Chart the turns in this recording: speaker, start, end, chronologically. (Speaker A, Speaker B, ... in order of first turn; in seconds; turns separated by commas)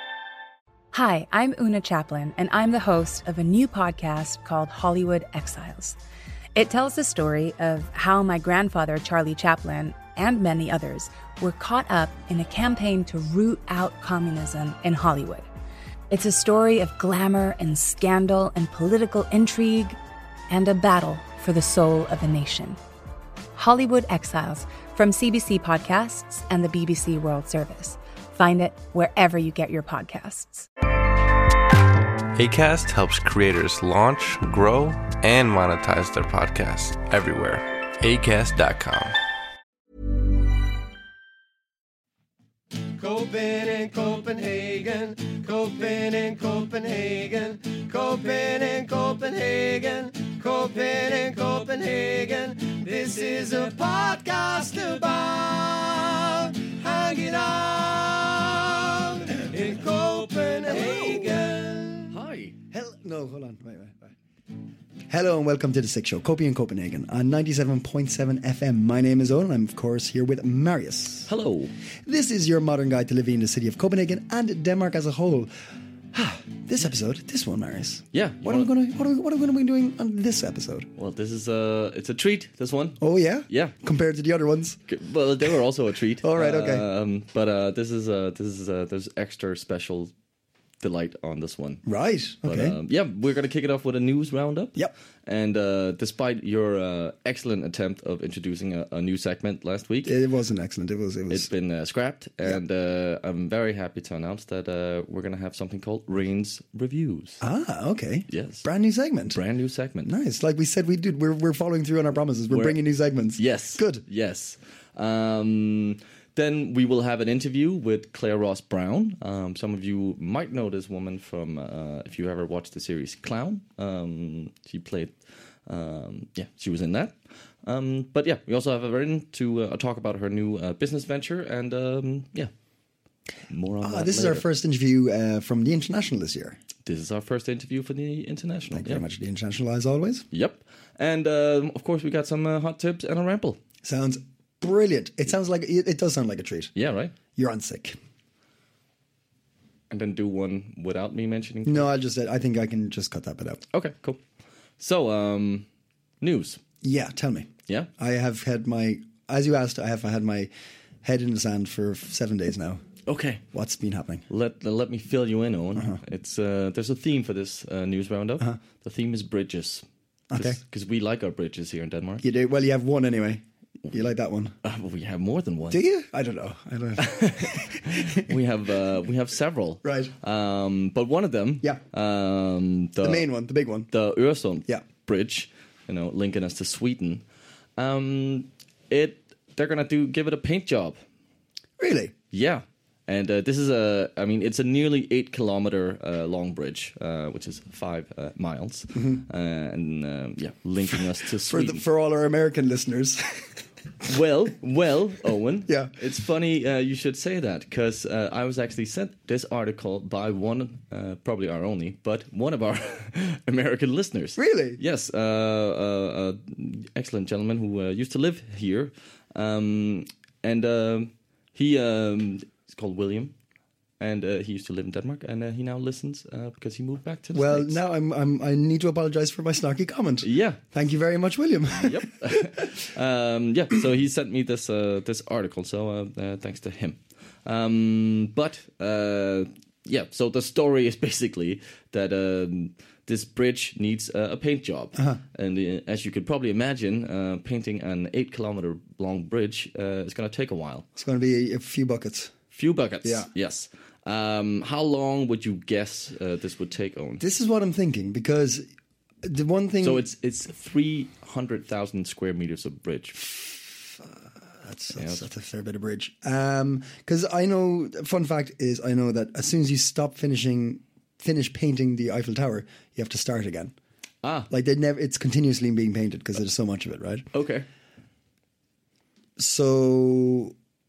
Speaker A: 0.9-6.0, Speaker A: 6.5-15.5, Speaker A: 16.1-20.0, Speaker A: 20.5-22.8, Speaker A: 23.6-30.7, Speaker B: 32.4-39.1, Speaker C: 43.0-62.1, Speaker D: 60.7-61.5, Speaker E: 62.1-62.5, Speaker D: 62.7-64.1, Speaker D: 65.1-71.3, Speaker E: 71.3-71.7, Speaker D: 72.0-75.5, Speaker D: 76.1-80.9, Speaker E: 78.1-78.7, Speaker E: 81.0-83.7, Speaker D: 83.0-84.8, Speaker E: 84.9-90.1, Speaker D: 86.2-86.8, Speaker E: 90.8-91.8, Speaker D: 91.8-92.8, Speaker E: 92.4-100.2, Speaker D: 100.0-101.5, Speaker E: 101.3-107.4, Speaker D: 107.4-109.4, Speaker E: 108.3-108.7, Speaker E: 109.3-110.1, Speaker D: 110.0-114.0, Speaker E: 112.5-112.8, Speaker E: 113.3-125.1, Speaker E: 125.7-132.5, Speaker E: 133.5-134.4, Speaker D: 133.8-136.6, Speaker E: 136.8-139.0, Speaker D: 138.7-140.2, Speaker E: 140.3-143.6, Speaker D: 143.8-146.7, Speaker E: 146.8-147.1, Speaker D: 147.3-147.9, Speaker E: 149.9-151.9, Speaker D: 151.6-153.6, Speaker E: 153.7-154.2, Speaker E: 154.8-155.7, Speaker E: 156.2-156.6, Speaker D: 156.8-160.5, Speaker D: 161.0-162.8, Speaker E: 163.1-163.4, Speaker D: 163.5-164.2, Speaker E: 164.3-172.2, Speaker D: 170.3-170.6, Speaker D: 172.2-174.6, Speaker E: 174.6-175.8, Speaker D: 175.7-178.2, Speaker E: 177.0-183.3, Speaker D: 179.8-180.1, Speaker D: 183.0-183.9, Speaker E: 183.9-187.2, Speaker E: 187.8-191.0, Speaker D: 191.8-192.1, Speaker E: 192.3-201.8, Speaker D: 198.9-199.2, Speaker D: 201.5-203.5, Speaker E: 204.0-223.3, Speaker D: 205.7-205.9, Speaker D: 214.4-214.8, Speaker E: 224.0-227.8, Speaker D: 227.3-232.7, Speaker E: 230.2-230.6, Speaker E: 231.7-250.9, Speaker D: 250.9-252.3, Speaker E: 252.5-257.2, Speaker D: 253.0-253.3, Speaker D: 257.2-258.6, Speaker D: 259.2-260.1, Speaker E: 259.8-263.2, Speaker D: 263.1-273.7, Speaker E: 265.0-265.2, Speaker E: 274.2-274.5, Speaker D: 274.5-277.3, Speaker E: 277.3-277.6, Speaker D: 279.4-280.5